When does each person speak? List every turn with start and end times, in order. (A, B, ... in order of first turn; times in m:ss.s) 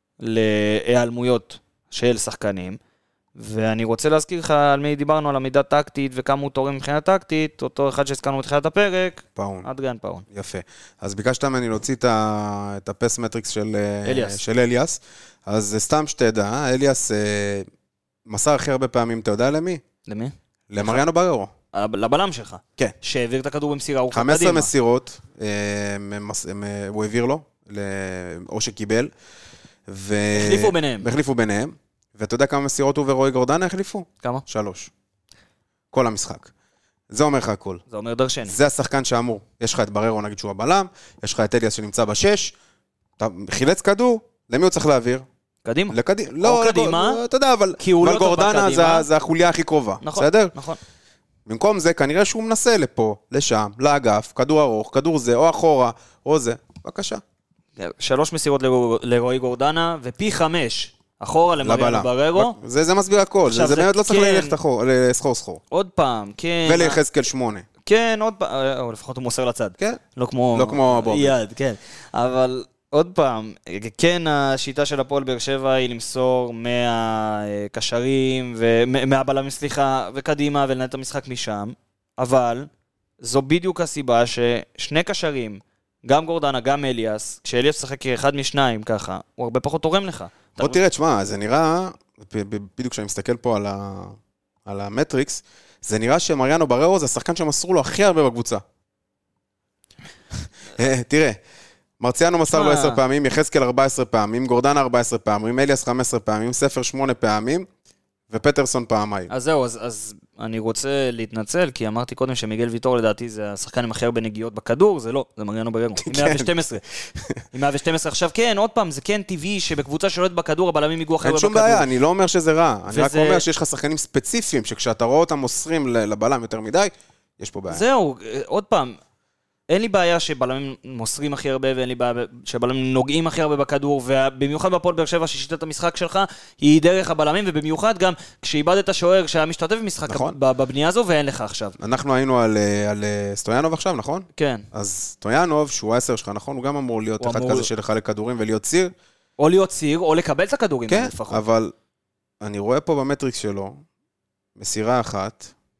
0:00.2-0:02.8 A
0:03.3-0:10.2 A
0:09.4-0:09.7 B
0:10.3-0:17.7 B
0:14.0-0:14.4 A
0:18.2-0:19.8 B
0:20.0-0:21.0 A
0:20.7-0:21.5 B
0:21.7-0:24.7 A
0:24.1-0:29.1 B
0:29.9-0:34.9 B
0:30.3-0:31.1 A
0:35.9-0:36.5 B
0:37.1-0:37.8 B
0:37.9-0:38.6 A
0:38.5-0:42.5 B
0:43.2-0:45.2 B
0:45.6-0:47.2 A
0:45.9-0:50.5 B
0:47.8-0:49.1 A
0:50.0-0:50.8 A
0:51.5-0:57.2 B
0:57.8-1:02.6 A
1:01.6-1:05.6 B
1:03.5-1:04.6 A
1:05.7-1:07.0 A
1:06.6-1:07.6 B
1:07.8-1:22.7 A
1:10.5-1:11.4 B
1:23.2-1:30.8 A
1:30.6-1:38.6 B
1:40.8-1:41.4 B
1:42.0-1:47.7 B
1:42.5-1:43.0 A
1:48.3-1:49.3 B
1:49.3-1:56.8 A
1:56.0-1:56.5 B
1:57.2-1:57.4 B
1:57.5-2:01.9 A
2:01.2-2:07.8 B
2:02.9-2:03.4 A
2:07.7-2:09.0 A
2:09.7-2:21.8 A
2:20.1-2:20.4 B
2:21.8-2:28.9 B
2:24.3-2:24.7 A
2:27.2-2:27.7 A
2:29.4-2:31.4 A
2:30.9-2:31.7 B
2:32.4-2:33.8 B
2:34.6-2:35.5 B